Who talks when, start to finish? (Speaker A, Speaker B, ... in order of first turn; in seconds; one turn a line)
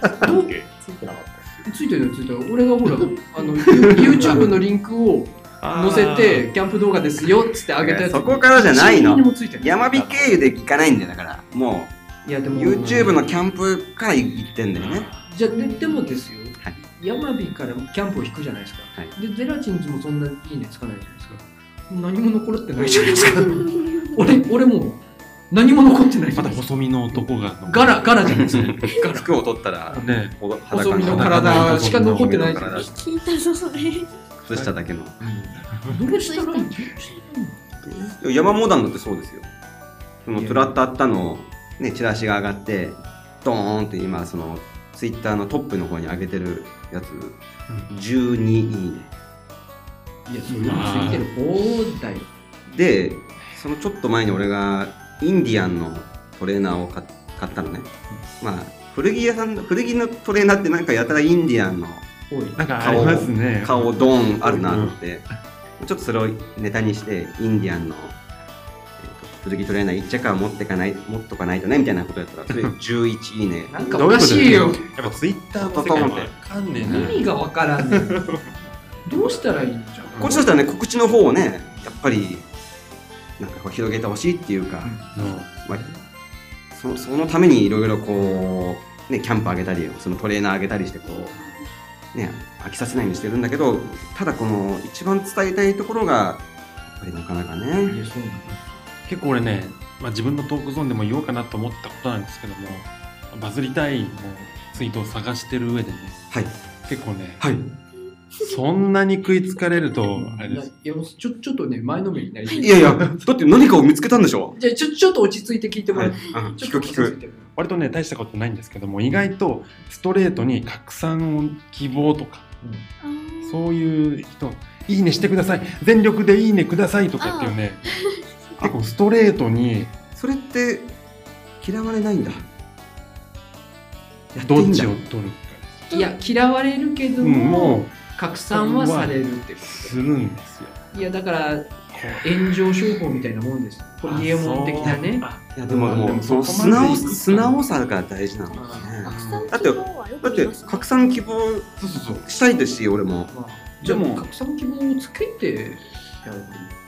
Speaker A: 0.1-1.7
Speaker B: 0.2-0.5
Speaker B: 1.6-9.8
Speaker C: 4.0-4.5
Speaker C: 5.6-6.5
Speaker D: 7.8-11.9
Speaker A: 9.9-10.3
Speaker B: 12.2-13.2
Speaker D: 12.5-15.1
Speaker C: 14.8-15.2
Speaker B: 15.3-29.3
Speaker E: 15.5-15.9
Speaker E: 22.9-24.1
Speaker C: 26.4-28.8
Speaker D: 28.3-33.0
Speaker B: 29.9-30.1
Speaker C: 30.0-30.4
Speaker B: 30.7-32.9
Speaker C: 31.0-32.6
Speaker E: 32.7-34.1
Speaker D: 34.4-35.2
Speaker B: 35.2-37.6
Speaker E: 36.2-36.9
Speaker D: 37.9-39.5
Speaker D: 40.2-49.1
Speaker B: 40.3-40.8
Speaker B: 50.3-52.3
Speaker C: 50.6-51.3
Speaker D: 52.7-62.1
Speaker B: 62.3-62.6
Speaker C: 62.6-65.0
Speaker D: 62.8-65.3
Speaker D: 65.8-68.2
Speaker D: 69.0-74.0
Speaker B: 73.7-74.8
Speaker C: 73.9-77.3
Speaker D: 75.0-77.2
Speaker B: 76.8-78.3
Speaker C: 77.8-78.5
Speaker B: 79.0-80.6
Speaker C: 80.1-80.4
Speaker D: 80.2-82.5
Speaker D: 83.4-85.0
Speaker B: 84.8-85.3
Speaker C: 85.1-86.0
Speaker D: 86.7-91.3
Speaker D: 92.1-98.0
Speaker B: 97.9-98.7
Speaker C: 99.1-106.2
Speaker C: 106.9-107.5
Speaker D: 107.4-107.7
Speaker C: 108.4-110.7
Speaker B: 110.1-113.0
Speaker D: 112.6-114.6
Speaker B: 114.5-117.5
Speaker D: 115.9-117.2
Speaker C: 117.6-122.5
Speaker E: 123.0-123.6
Speaker C: 123.4-127.8
Speaker E: 127.2-128.2
Speaker C: 128.6-129.9
Speaker D: 130.2-130.9
Speaker D: 131.6-132.4
Speaker D: 134.4-134.9
Speaker C: 134.4-135.9
Speaker B: 135.9-140.0
Speaker C: 137.2-137.9
Speaker C: 138.5-140.8
Speaker B: 140.9-145.3
Speaker C: 141.9-142.5
Speaker C: 144.1-147.6
Speaker D: 145.6-154.2
Speaker E: 148.5-151.2
Speaker B: 148.6-149.5
Speaker B: 151.8-152.2
Speaker B: 153.3-156.7